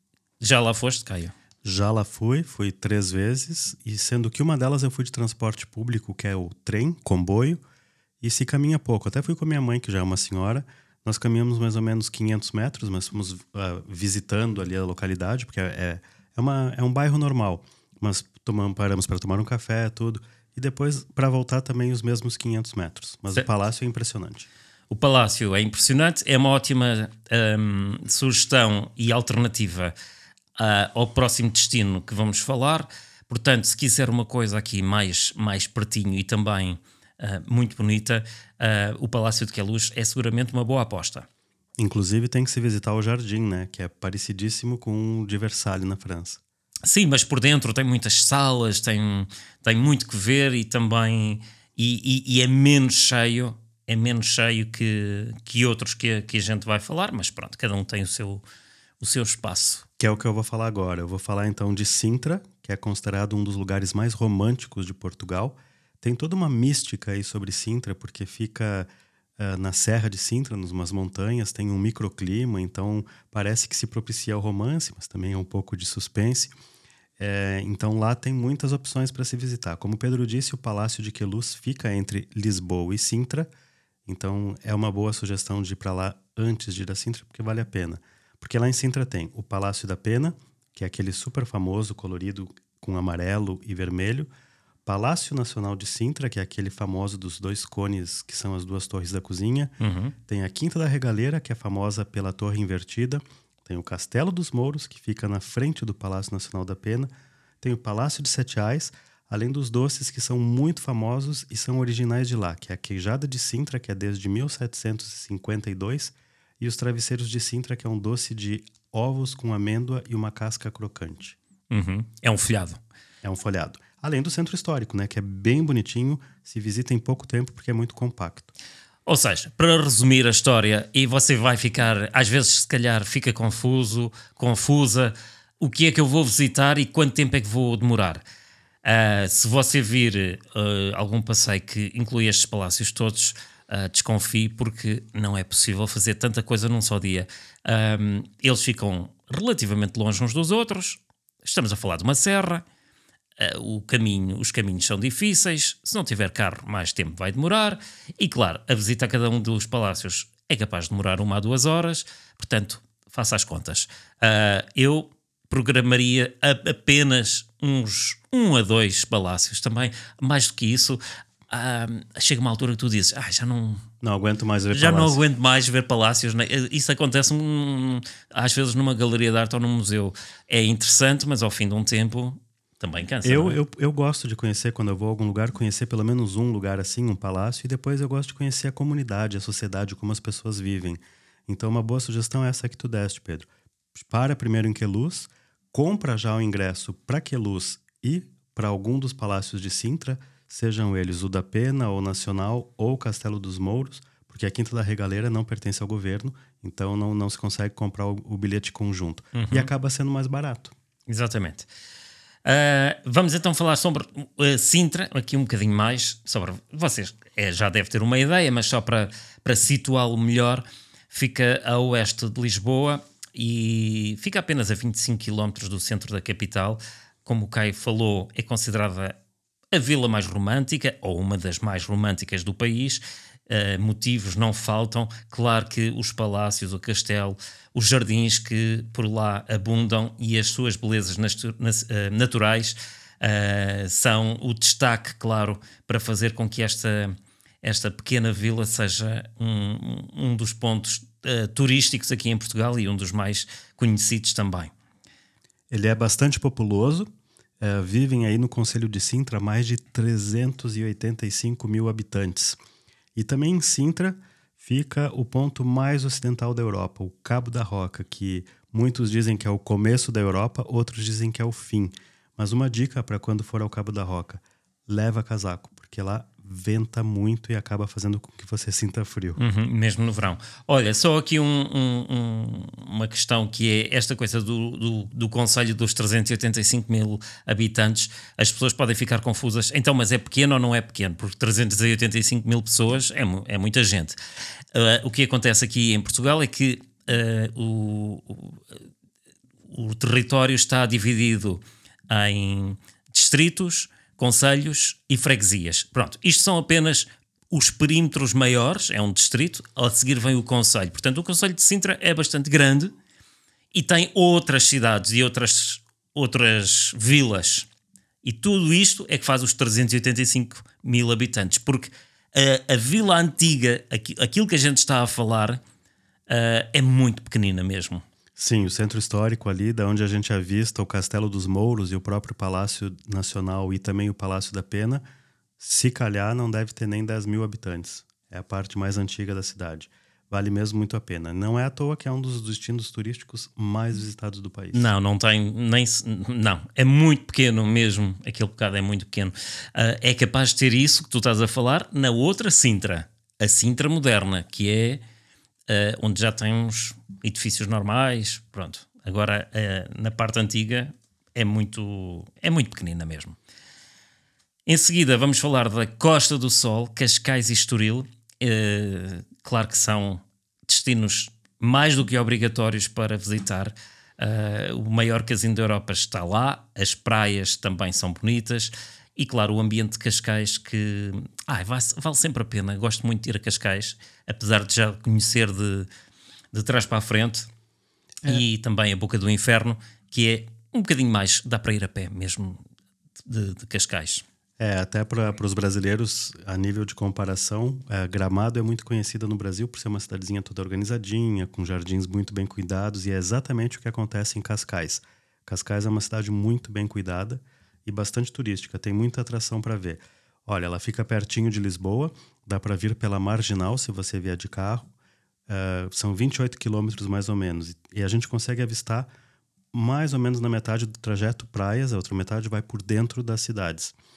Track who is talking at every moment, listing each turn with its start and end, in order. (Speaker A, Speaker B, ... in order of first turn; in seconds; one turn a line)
Speaker A: 0.4-1.3
Speaker B: 1.6-7.6
Speaker B: 8.2-24.5
Speaker A: 24.9-29.9
Speaker A: 30.6-41.3
Speaker B: 41.8-46.4
Speaker A: 46.9-58.4
Speaker A: 59.0-59.9
Speaker B: 60.0-68.9
Speaker B: 69.4-76.5
Speaker B: 77.2-83.5
Speaker B: 84.1-94.3
Speaker B: 94.8-99.7
Speaker A: 99.8-100.1
Speaker B: 100.3-107.1
Speaker B: 107.6-121.4
Speaker A: 121.7-122.8
Speaker B: 123.2-128.5
Speaker A: 129.1-138.2
Speaker A: 138.8-152.7
Speaker A: 153.4-173.8
Speaker B: 174.0-175.2
Speaker A: 174.7-183.6
Speaker B: 183.2-210.7
Speaker A: 209.3-209.7
Speaker A: 211.1-211.7
Speaker A: 212.4-229.2
Speaker A: 229.7-254.7
Speaker B: 255.7-257.1
Speaker B: 257.6-262.6
Speaker B: 263.1-279.4
Speaker A: 279.4-294.2
Speaker A: 294.7-298.6
Speaker A: 299.7-312.9
Speaker A: 313.7-317.7
Speaker A: 318.2-325.6
Speaker A: 326.3-328.0
Speaker B: 328.4-335.0
Speaker B: 335.6-344.9
Speaker A: 344.7-355.0
Speaker A: 355.7-363.4
Speaker A: 364.7-385.9
Speaker A: 386.5-387.5
Speaker A: 388.2-392.6
Speaker A: 393.2-394.2
Speaker B: 394.6-414.9
Speaker B: 415.5-419.1
Speaker B: 419.7-423.9